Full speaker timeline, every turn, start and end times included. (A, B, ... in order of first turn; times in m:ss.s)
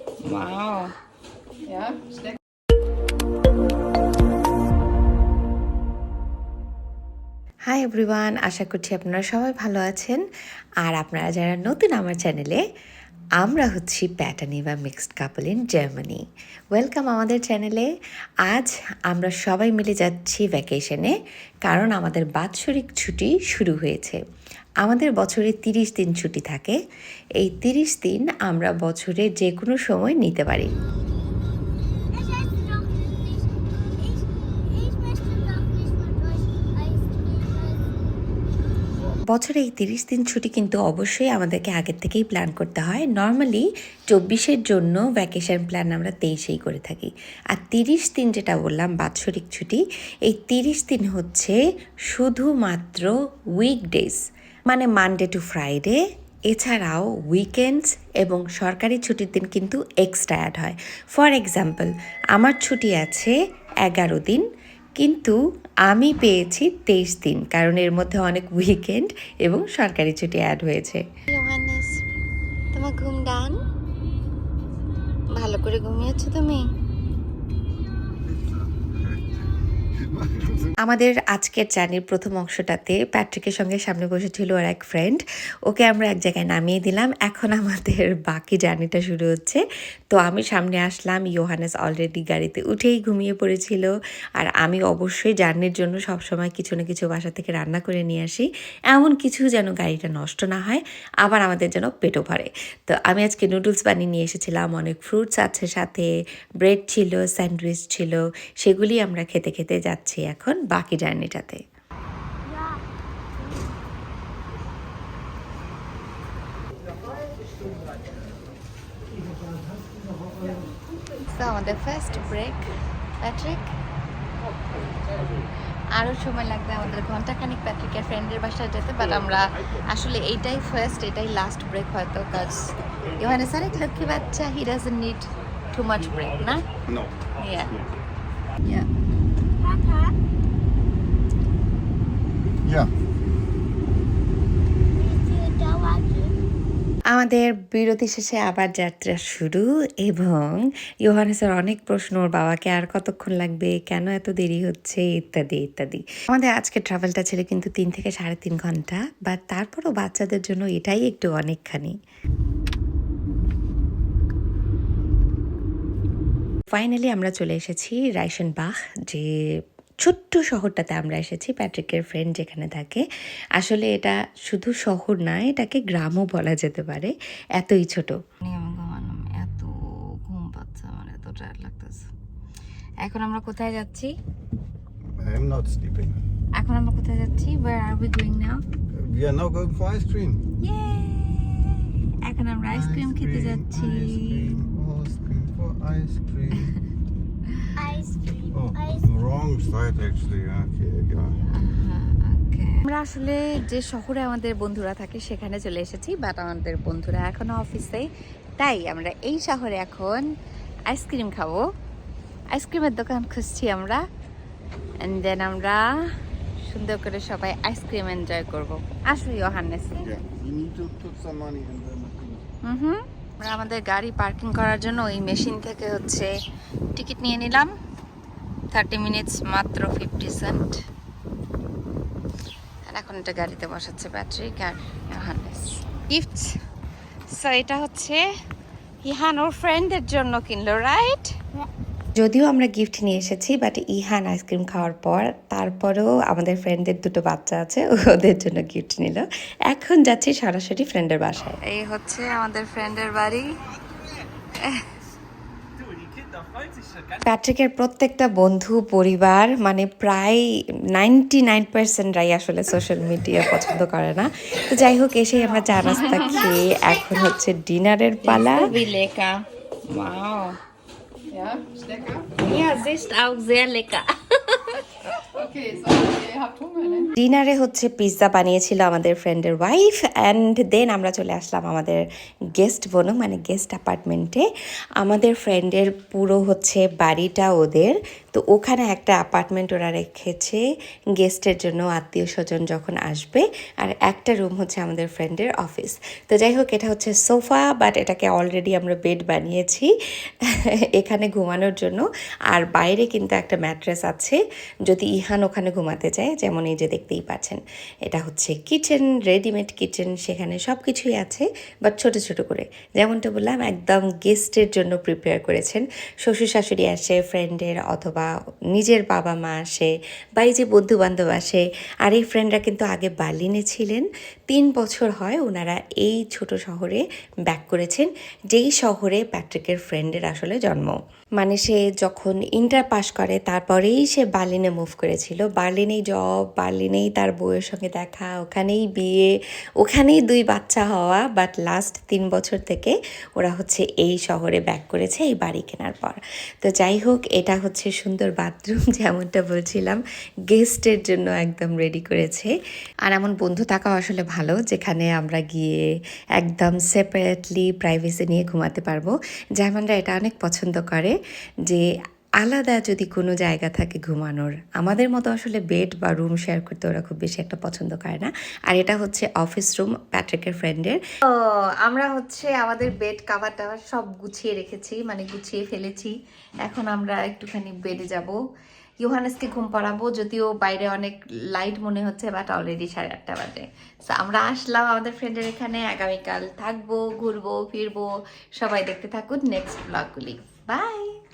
0:00.2-0:00.9 A
0:01.7-0:02.4 B
0:07.7-0:10.2 C
0:10.8-0:12.6 C
0:13.4-0:16.2 C
0:16.8-0:17.9 C
0:18.5-0:21.1 C
0:21.7-0:24.2 C
0:24.8-0:26.8 C
0:27.4-0:30.7 C
0:32.1-0:38.2 D
0:39.3-0:51.6 C
0:52.1-0:56.0 C
0:56.5-1:04.4 C
1:05.0-1:05.3 C
1:05.9-1:11.0 C
1:11.3-1:11.9 A
1:12.7-1:13.5 A
1:15.4-1:16.6 A
1:18.4-1:19.2 E
1:20.0-1:20.7 E
1:20.8-1:46.1 C
1:46.6-1:51.6 C
1:52.5-1:52.8 D
2:01.4-2:02.6 A
2:03.2-2:03.6 A
2:06.0-2:16.6 A
2:16.9-2:17.1 E
2:17.4-2:17.7 A
2:19.6-2:20.1 D
2:22.6-2:22.9 E
2:25.0-2:26.4 D
2:27.1-2:41.9 C
2:46.7-2:49.3 C
2:50.0-2:53.0 C
2:53.6-2:58.2 C
2:58.4-2:59.7 A
3:00.2-3:02.1 A
3:03.0-3:04.1 A
3:05.2-3:06.2 E
3:06.6-3:08.6 A
3:08.9-3:10.4 E
3:10.6-3:14.6 A
3:12.7-3:16.7 E
3:17.8-3:19.1 D
3:18.5-3:21.4 E
3:21.5-3:28.0 A
3:28.6-3:30.2 A
3:30.9-3:31.6 A
3:32.5-3:34.0 A
3:35.0-3:35.8 A
3:36.7-3:40.0 A
3:40.0-3:42.4 E
3:42.7-3:46.3 A
3:47.0-3:47.7 A
3:48.7-3:50.7 A
3:52.9-3:56.4 A
3:57.3-3:58.2 A
3:59.0-4:01.3 A
4:02.2-4:11.6 C
4:11.7-4:13.5 A
4:17.2-4:20.4 C
4:21.0-4:28.7 C
4:28.8-4:29.3 A
4:30.0-4:30.5 A
4:31.3-4:32.3 B
4:32.4-4:34.0 A
4:35.2-4:37.1 B
4:37.2-4:42.0 C
4:42.5-4:44.4 C
4:45.0-4:50.6 C
4:51.2-4:59.9 C
5:00.4-5:52.5 C
5:53.1-5:55.9 C
5:56.4-6:01.1 C
6:02.4-6:11.0 C
6:11.9-6:16.1 A
6:16.7-6:18.4 A
6:19.1-6:28.1 A
6:28.6-6:31.1 A